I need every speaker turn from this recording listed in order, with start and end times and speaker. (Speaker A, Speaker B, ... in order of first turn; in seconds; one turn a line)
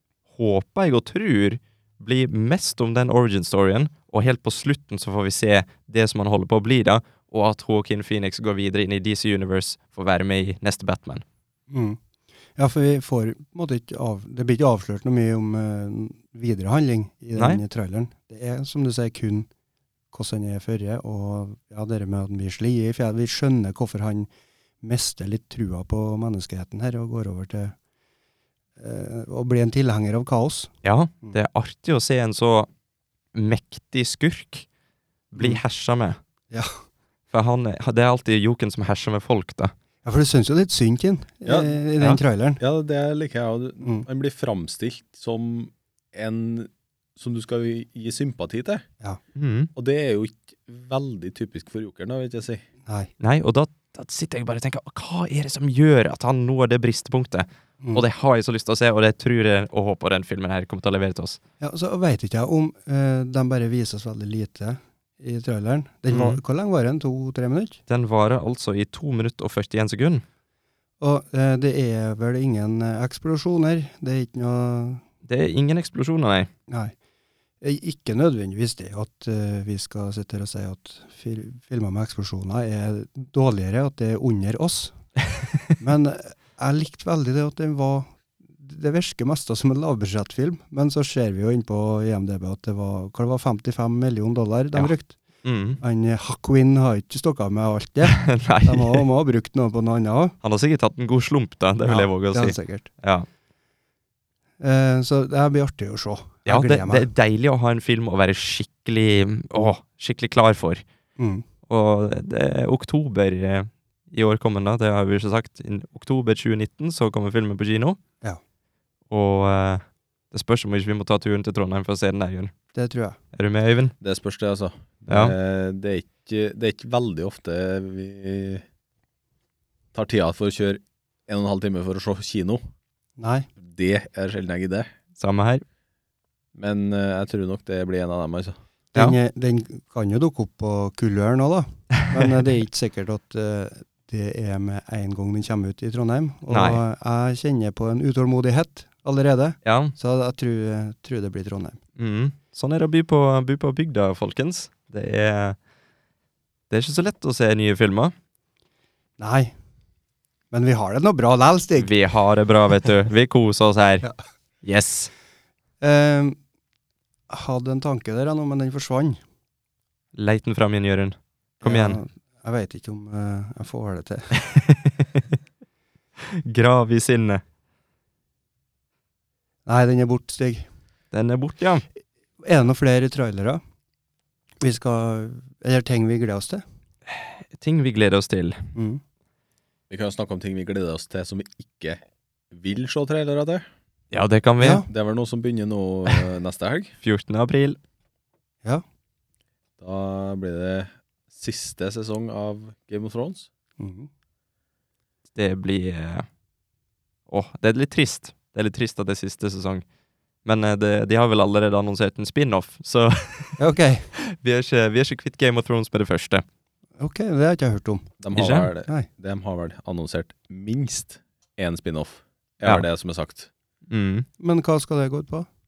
Speaker A: 0.3-11.2
Speaker B: 11.7-12.0
Speaker B: 12.5-19.5
Speaker A: 17.4-17.6
Speaker B: 20.1-24.3
Speaker B: 24.8-27.8
Speaker B: 28.8-31.4
Speaker A: 30.8-32.7
Speaker A: 33.3-34.6
Speaker A: 35.3-36.2
Speaker A: 37.3-39.7
Speaker B: 40.0-42.6
Speaker C: 41.5-41.7
Speaker C: 42.6-48.8
Speaker B: 43.8-44.1
Speaker A: 49.4-49.7
Speaker C: 49.7-52.6
Speaker B: 52.8-53.1
Speaker A: 53.2-61.4
Speaker B: 61.6-67.8
Speaker A: 66.1-66.4
Speaker A: 67.9-70.2
Speaker B: 71.0-75.0
Speaker A: 75.2-76.5
Speaker B: 76.7-76.9
Speaker B: 77.6-85.0
Speaker B: 85.8-95.2
Speaker A: 95.4-95.8
Speaker B: 95.8-100.3
Speaker A: 98.0-99.0
Speaker A: 100.4-103.3
Speaker B: 101.8-102.9
Speaker B: 104.6-107.1
Speaker A: 106.5-110.8
Speaker B: 111.2-111.4
Speaker A: 111.7-118.0
Speaker A: 119.1-122.5
Speaker B: 122.7-123.2
Speaker A: 123.3-123.9
Speaker C: 124.0-128.6
Speaker A: 125.1-125.3
Speaker C: 129.9-132.6
Speaker B: 133.2-133.5
Speaker C: 133.6-134.9
Speaker A: 135.2-135.6
Speaker C: 136.5-138.6
Speaker B: 138.9-151.8
Speaker A: 146.5-146.8
Speaker A: 149.6-149.9
Speaker A: 152.0-155.6
Speaker A: 156.7-158.1
Speaker B: 159.2-159.5
Speaker B: 160.5-161.9
Speaker A: 161.8-164.1
Speaker A: 164.6-165.1
Speaker B: 165.8-166.4
Speaker B: 167.3-169.2
Speaker A: 170.1-172.0
Speaker B: 171.6-174.3
Speaker A: 174.4-175.1
Speaker A: 176.3-177.4
Speaker B: 179.7-180.7
Speaker A: 181.1-181.8
Speaker B: 182.4-183.6
Speaker B: 184.6-186.6
Speaker A: 187.1-188.6
Speaker B: 188.7-189.0
Speaker C: 189.9-192.0
Speaker C: 192.5-193.7
Speaker A: 194.1-194.8
Speaker B: 194.6-194.9
Speaker C: 194.9-196.9
Speaker A: 197.0-197.8
Speaker C: 199.8-203.5
Speaker B: 203.8-204.1
Speaker A: 205.3-206.2
Speaker A: 207.3-209.8
Speaker A: 210.4-213.6
Speaker B: 213.6-214.1
Speaker A: 214.2-216.4
Speaker B: 217.0-218.2
Speaker C: 218.2-223.5
Speaker A: 218.3-218.7
Speaker A: 223.9-224.2
Speaker B: 224.4-225.5